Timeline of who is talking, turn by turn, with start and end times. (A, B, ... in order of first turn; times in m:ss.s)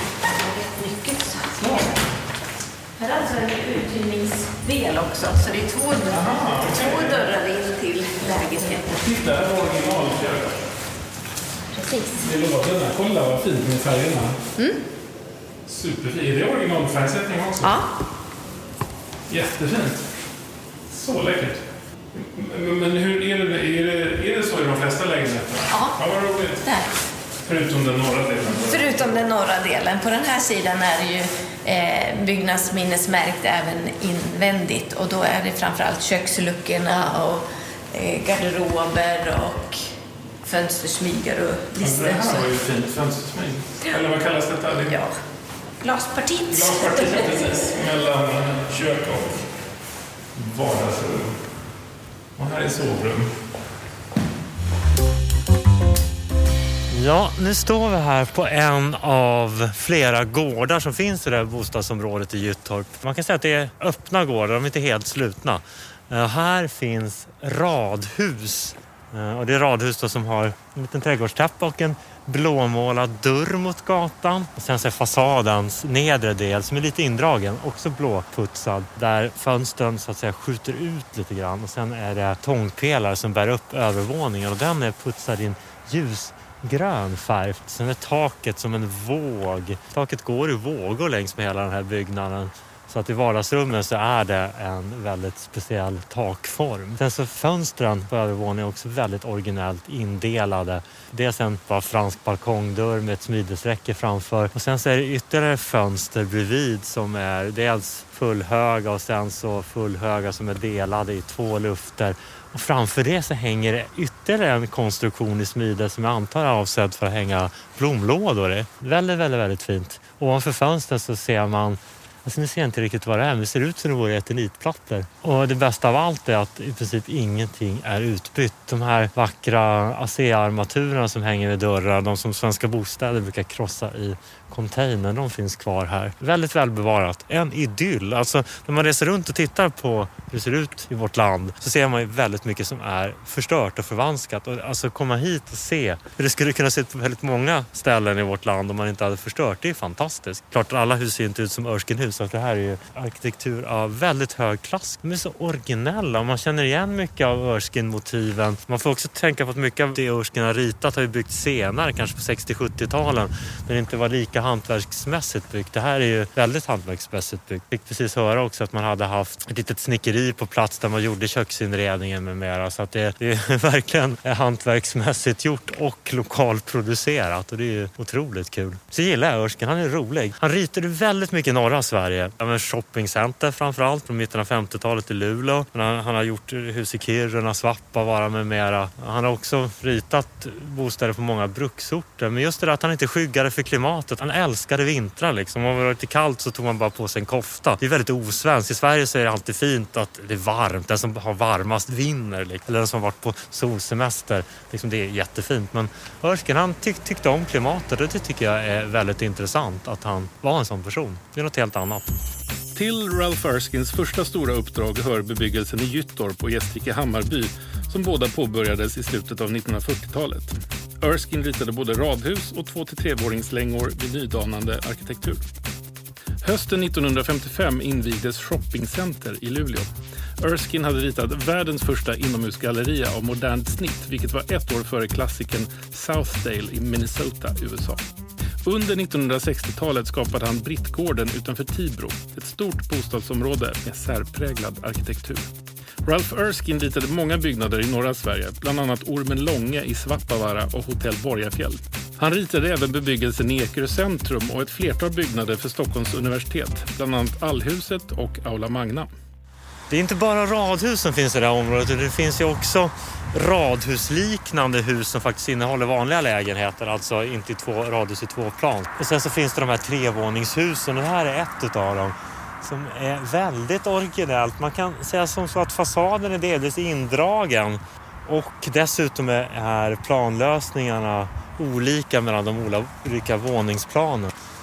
0:00.4-0:01.9 A
0:03.0-0:08.8 A
0:06.0-0:07.3 B
0:08.6-0:10.6 B
0:11.7-0:12.3 A
0:12.1-0:14.4 B
0:15.6-0:17.8 B
0:17.6-0:17.9 A
0:19.3-0:20.1 B
0:20.9-0:21.6 B
0:22.1-0:26.7 B
0:25.7-0:26.0 A
0:26.6-0:26.9 A
0:27.4-0:29.2 B
0:28.5-0:39.8 A
0:40.4-0:42.5 A
0:41.8-0:45.1 B
0:44.7-0:45.2 A
0:45.8-0:47.4 A
0:46.5-0:49.5 B
0:50.3-0:51.4 B
0:52.4-0:53.3 B
0:56.9-3:32.1 C
3:32.7-3:45.4 B
3:46.4-3:49.9 B
3:50.4-3:58.0 B
3:58.6-4:05.4 B
4:06.0-4:19.1 B
4:19.9-4:44.3 C